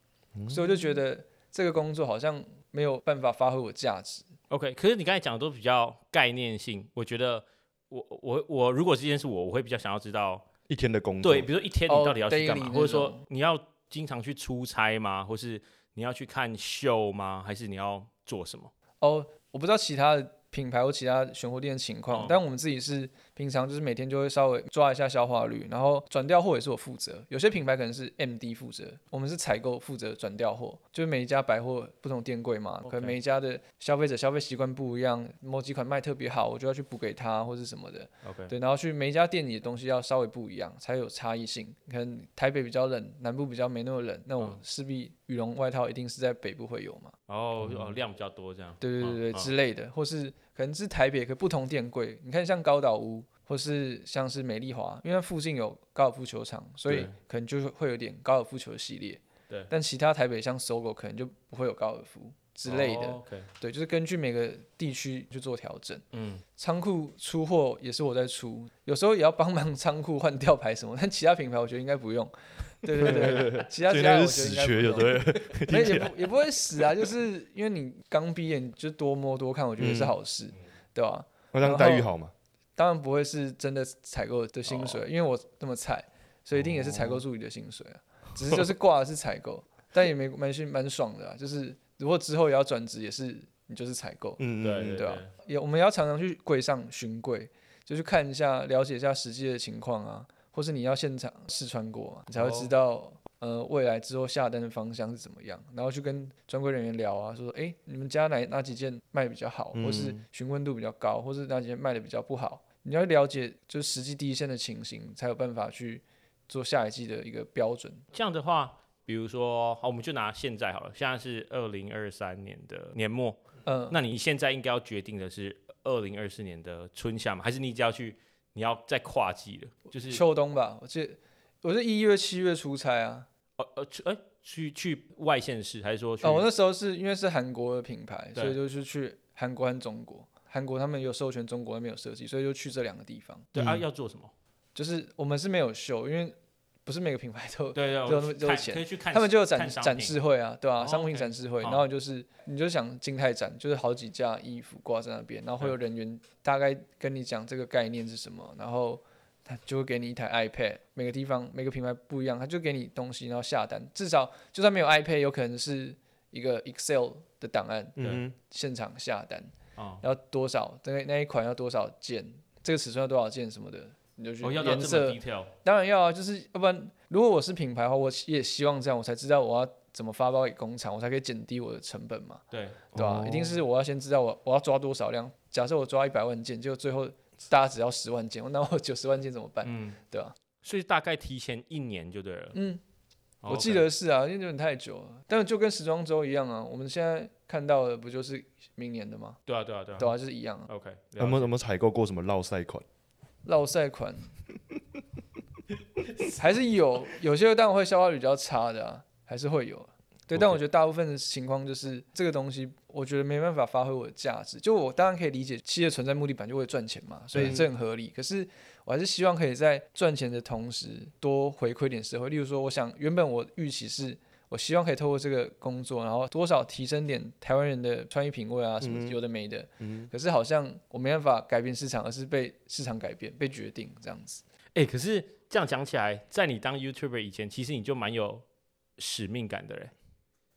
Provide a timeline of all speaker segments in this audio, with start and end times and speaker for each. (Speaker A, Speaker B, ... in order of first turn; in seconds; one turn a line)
Speaker A: 0.3-0.8
Speaker B: 0.5-4.3
Speaker C: 4.5-10.5
Speaker A: 10.7-11.5
Speaker C: 11.2-18.7
Speaker B: 11.9-13.2
Speaker B: 19.0-47.1
Speaker C: 22.1-22.4
Speaker C: 32.9-33.2
Speaker C: 38.2-38.5
Speaker C: 47.3-49.5
Speaker A: 47.6-48.0
Speaker B: 48.8-66.0
Speaker C: 56.9-57.1
Speaker C: 62.7-63.5
Speaker C: 66.1-66.4
Speaker B: 66.6-82.1
Speaker A: 73.0-77.1
Speaker A: 79.8-80.2
Speaker A: 81.5-82.3
Speaker B: 82.8-118.0
Speaker A: 86.7-87.2
Speaker A: 94.4-95.1
Speaker C: 94.6-95.3
Speaker C: 102.3-102.7
Speaker A: 109.7-110.2
Speaker C: 118.1-130.2
Speaker B: 123.7-124.0
Speaker B: 130.1-133.3
Speaker C: 133.6-136.5
Speaker B: 136.2-143.5
Speaker C: 143.5-144.3
Speaker A: 143.6-143.8
Speaker B: 144.8-190.3
Speaker C: 147.8-150.2
Speaker C: 150.8-151.8
Speaker A: 168.0-168.3
Speaker C: 168.0-168.2
Speaker C: 169.8-170.0
Speaker C: 174.4-175.5
Speaker C: 182.5-182.9
Speaker A: 182.9-183.6
Speaker C: 189.6-190.0
Speaker C: 190.6-192.6
Speaker B: 192.5-192.8
Speaker C: 193.4-193.9
Speaker B: 193.4-199.4
Speaker C: 199.5-200.2
Speaker B: 200.0-200.7
Speaker C: 200.7-201.5
Speaker A: 201.2-202.8
Speaker B: 203.4-204.3
Speaker B: 206.3-234.4
Speaker A: 217.3-217.6
Speaker A: 228.8-229.2
Speaker A: 229.8-230.1
Speaker C: 234.8-238.4
Speaker C: 239.0-239.9